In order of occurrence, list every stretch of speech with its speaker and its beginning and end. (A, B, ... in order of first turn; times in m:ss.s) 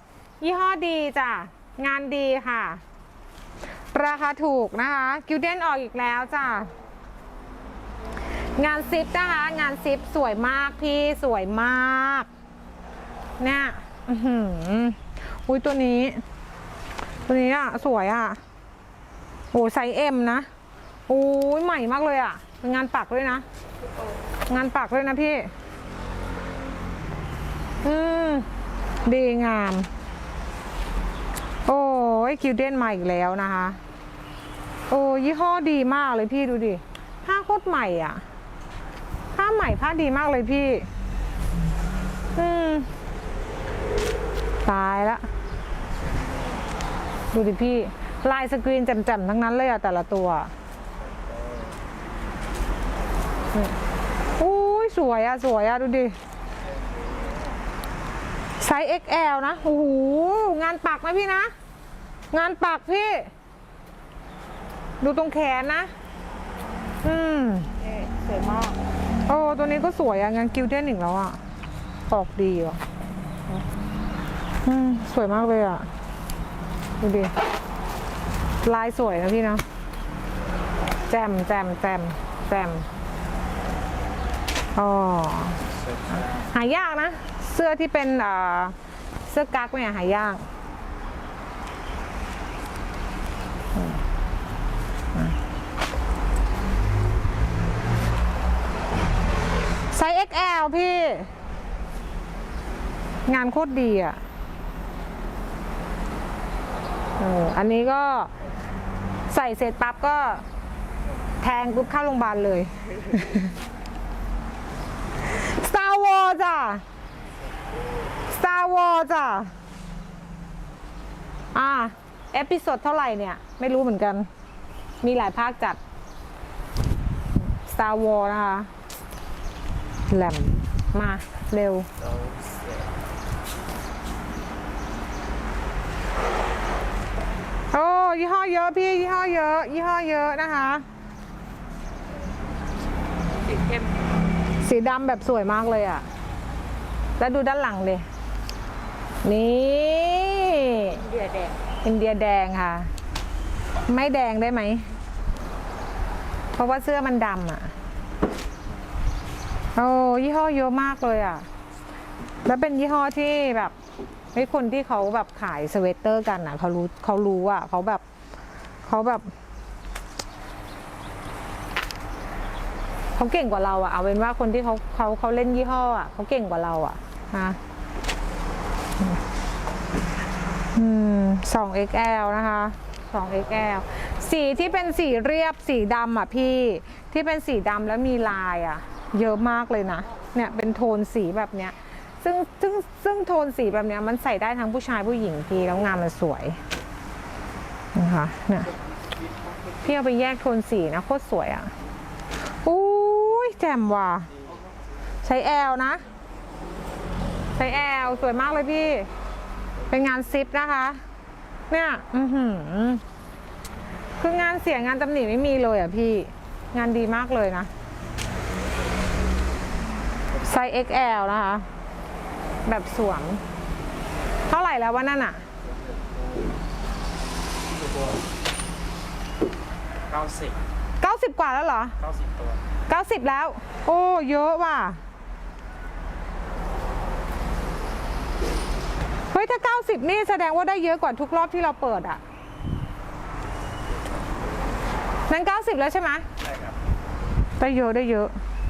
0:00.4-0:02.8 A
0:03.9-0:06.7 A
0:08.6-0:12.3 A
0:13.4-0:16.2 A
0:17.3-0:18.4 A
0:19.5-0:20.5 A
0:21.1-0:23.4 A
0:23.8-0:24.2 B
0:24.5-0:25.5 A
0:27.8-0:28.5 A
0:29.0-0:29.9 A
0:31.7-0:33.8 A
0:34.9-0:38.2 A
0:39.4-0:40.9 A
0:42.4-0:42.9 A
0:44.6-0:45.3 A
0:47.3-0:50.5 A
0:51.2-0:51.7 C
0:54.4-0:56.2 A
0:58.6-1:01.5 A
1:02.3-1:03.3 A
1:05.0-1:05.9 A
1:07.0-1:07.7 A
1:07.8-1:08.8 B
1:09.3-1:11.4 A
1:12.1-1:12.8 A
1:14.6-1:15.9 A
1:17.0-1:17.3 A
1:18.6-1:19.6 A
1:21.1-1:22.9 A
1:24.8-1:25.6 A
1:25.7-1:26.4 C
1:26.2-1:28.8 A
1:29.3-1:30.4 A
1:33.8-1:34.0 A
1:39.9-1:41.3 A
1:43.3-1:44.2 A
1:47.2-1:48.3 A
1:49.3-1:50.4 A
1:51.4-1:53.5 A
1:55.4-1:56.8 A
1:58.3-1:59.5 A
2:01.5-2:04.3 A
2:05.0-2:05.8 A
2:07.5-2:08.7 A
2:10.1-2:11.9 A
2:12.0-2:13.0 C
2:17.7-2:20.8 A
2:23.4-2:24.0 B
2:24.6-2:26.1 A
2:27.2-2:28.0 A
2:29.2-2:31.0 A
2:31.0-2:31.6 B
2:31.8-2:32.9 A
2:33.9-2:34.9 A
2:36.6-2:37.7 A
2:39.8-2:41.5 A
2:42.4-2:43.8 A
2:44.3-2:48.0 A
2:48.8-2:49.3 A
2:53.2-2:57.6 A
3:00.8-3:16.6 A
3:18.0-3:18.7 A
3:19.8-3:21.7 A
3:22.5-3:24.3 A
3:25.2-3:26.1 A
3:27.6-3:29.1 A
3:29.9-3:31.0 A
3:31.7-3:33.0 A
3:34.2-3:37.7 A
3:40.4-3:41.7 A
3:42.7-3:43.4 A
3:44.5-3:45.4 A
3:45.6-3:46.5 C
3:47.7-3:48.2 C
3:50.1-3:50.6 C
3:51.0-3:52.0 A
3:52.0-3:52.6 C
3:52.9-3:55.0 A
3:59.3-4:02.2 A
4:04.0-4:04.6 C
4:05.3-4:06.3 A
4:06.4-4:06.7 C
4:07.6-4:08.3 A